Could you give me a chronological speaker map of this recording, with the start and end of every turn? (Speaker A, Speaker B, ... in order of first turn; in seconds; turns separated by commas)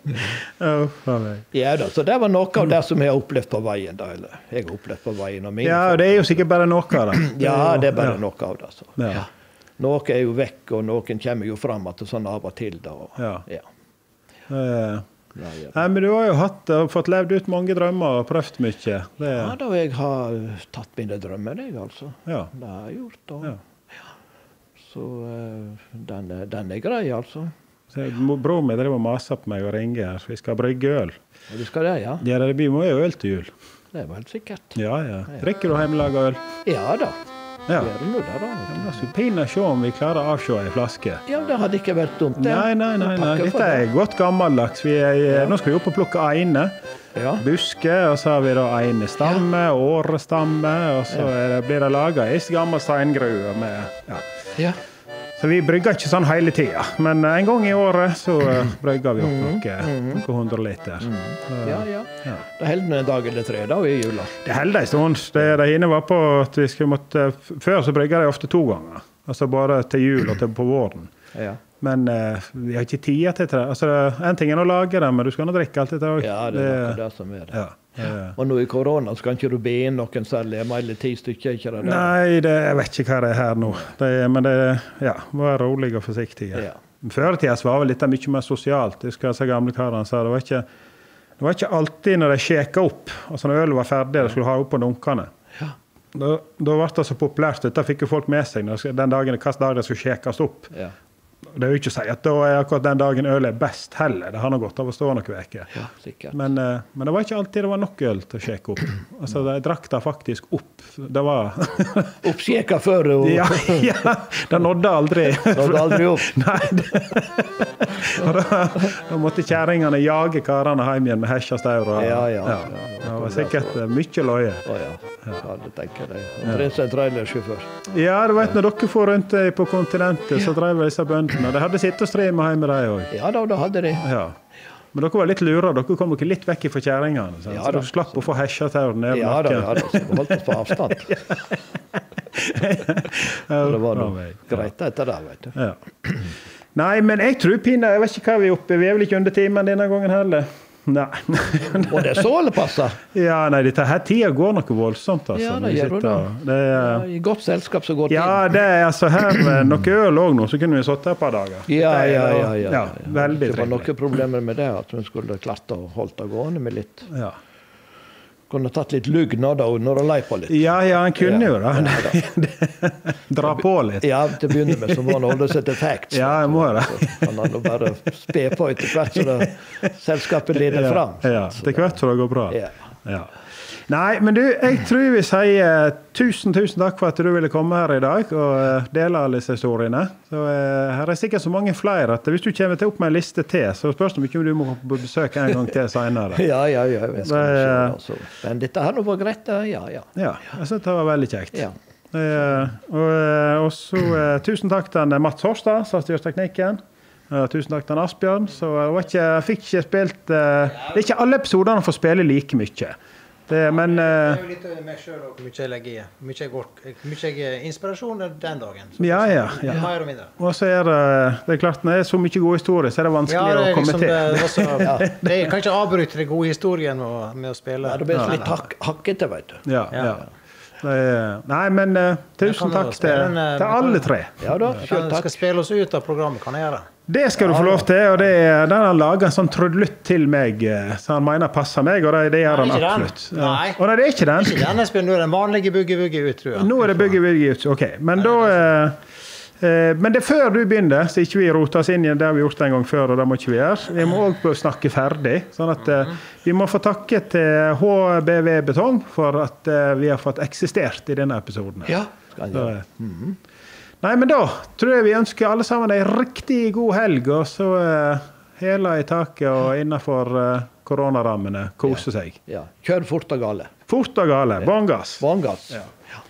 Speaker A: 0.1-1.5, Speaker B: 1.5-6.5, Speaker A: 5.6-8.2, Speaker B: 7.1-9.2, Speaker A: 9.0-9.3, Speaker B: 9.8-13.7, Speaker A: 13.2-13.4, Speaker A: 14.5-15.1, Speaker B: 15.3-15.8, Speaker A: 15.7-19.6, Speaker B: 19.2-23.6, Speaker A: 22.3-22.5, Speaker B: 24.8-27.5, Speaker A: 27.9-31.2, Speaker B: 31.5-32.3, Speaker A: 32.2-33.5, Speaker B: 33.9-35.5, Speaker A: 34.8-36.4, Speaker B: 36.6-39.1, Speaker A: 38.7-41.2, Speaker B: 41.3-43.9, Speaker A: 42.4-46.8, Speaker B: 47.1-47.4, Speaker A: 47.4-54.3, Speaker A: 55.4-62.4, Speaker B: 59.2-60.2, Speaker B: 61.0-64.4, Speaker A: 64.4-71.1, Speaker B: 71.3-71.6, Speaker A: 71.8-77.0, Speaker B: 76.2-77.6, Speaker A: 77.5-78.4, Speaker B: 78.3-82.1, Speaker A: 81.8-90.7, Speaker B: 86.5-86.8, Speaker A: 91.4-95.3, Speaker A: 96.1-100.7, Speaker A: 101.5-105.7, Speaker B: 105.8-106.4, Speaker A: 106.3-112.2, Speaker B: 112.2-114.0, Speaker A: 113.2-124.7, Speaker B: 115.5-116.4, Speaker B: 122.0-123.8, Speaker B: 124.7-127.9, Speaker A: 127.9-133.1, Speaker B: 133.1-134.1, Speaker A: 134.0-134.4, Speaker A: 134.9-141.4, Speaker B: 137.5-138.2, Speaker B: 139.1-141.4, Speaker A: 142.3-144.7, Speaker B: 143.5-145.6, Speaker A: 146.8-152.3, Speaker B: 151.9-153.0, Speaker A: 153.1-157.1, Speaker B: 155.3-158.5, Speaker A: 158.1-163.9, Speaker B: 161.7-167.1, Speaker A: 167.1-167.4, Speaker B: 168.5-172.2, Speaker A: 170.5-175.4, Speaker B: 173.5-182.0, Speaker A: 176.1-177.4, Speaker A: 180.5-196.5, Speaker B: 182.5-182.8, Speaker B: 196.3-200.1, Speaker A: 197.2-198.0, Speaker A: 200.2-213.0, Speaker A: 213.5-214.4, Speaker C: 213.8-220.3, Speaker A: 219.0-225.5, Speaker C: 223.3-228.6, Speaker B: 224.8-225.2, Speaker B: 227.8-229.7, Speaker A: 229.7-230.2, Speaker C: 229.9-230.2, Speaker A: 230.8-234.4, Speaker C: 232.4-234.1, Speaker B: 234.4-235.4, Speaker C: 234.7-236.9, Speaker A: 237.1-244.8, Speaker B: 237.4-237.8, Speaker C: 242.5-243.8, Speaker C: 244.3-247.2, Speaker A: 246.6-249.0, Speaker A: 249.6-262.8, Speaker B: 262.3-263.4, Speaker A: 264.0-272.4, Speaker B: 271.9-273.7, Speaker A: 273.9-275.9, Speaker B: 275.2-275.9